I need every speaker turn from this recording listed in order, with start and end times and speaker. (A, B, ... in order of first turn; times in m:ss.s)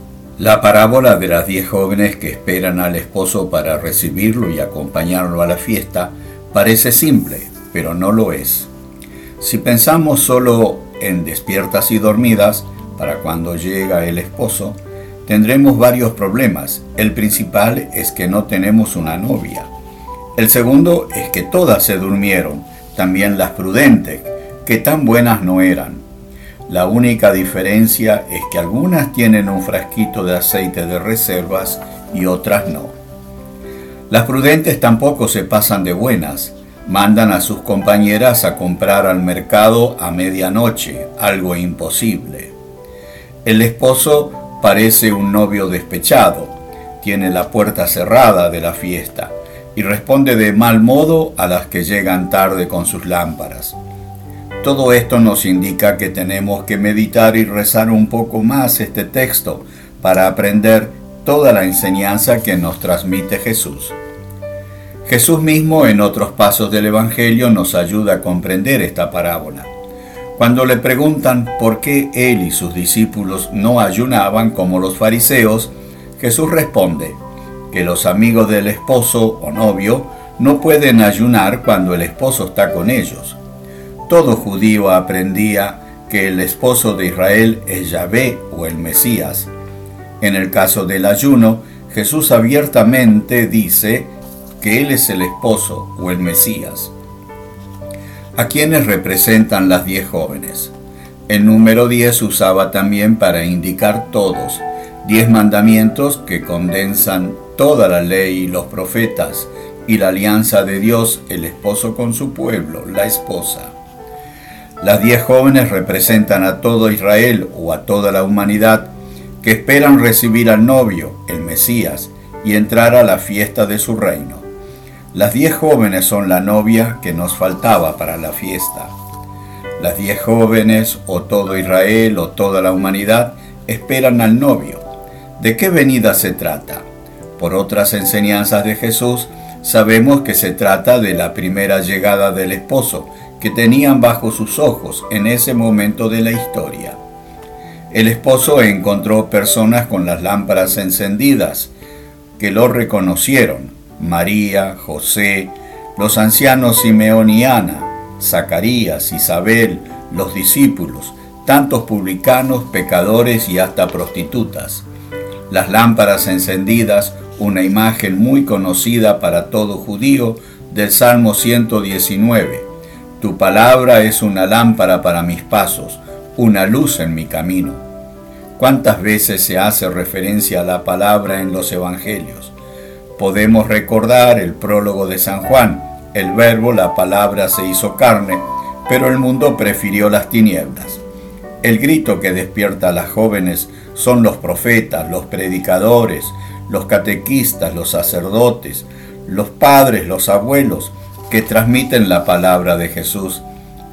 0:00.4-0:08.7 A
0:09.4-0:19.7 A
0:20.4-0:26.0 A
0:26.7-0:32.9 A
0:34.1-0:42.5 A
0:43.4-0:53.8 A
0:54.6-1:03.9 A
1:05.0-1:09.7 A
1:10.4-1:17.2 A
1:17.7-1:23.4 A
1:24.1-1:29.5 A
1:30.2-1:36.9 A
1:38.4-1:40.7 A
1:41.3-1:53.7 A
1:54.8-2:04.5 A
2:05.1-2:08.9 A
2:09.8-2:14.8 A
2:15.4-2:16.8 A
2:17.4-2:27.0 A
2:27.9-2:31.7 A
2:32.4-2:44.8 A
2:45.5-2:52.7 A
2:53.2-2:57.8 A
2:58.6-3:02.5 A
3:03.2-3:11.0 A
3:11.6-3:23.4 A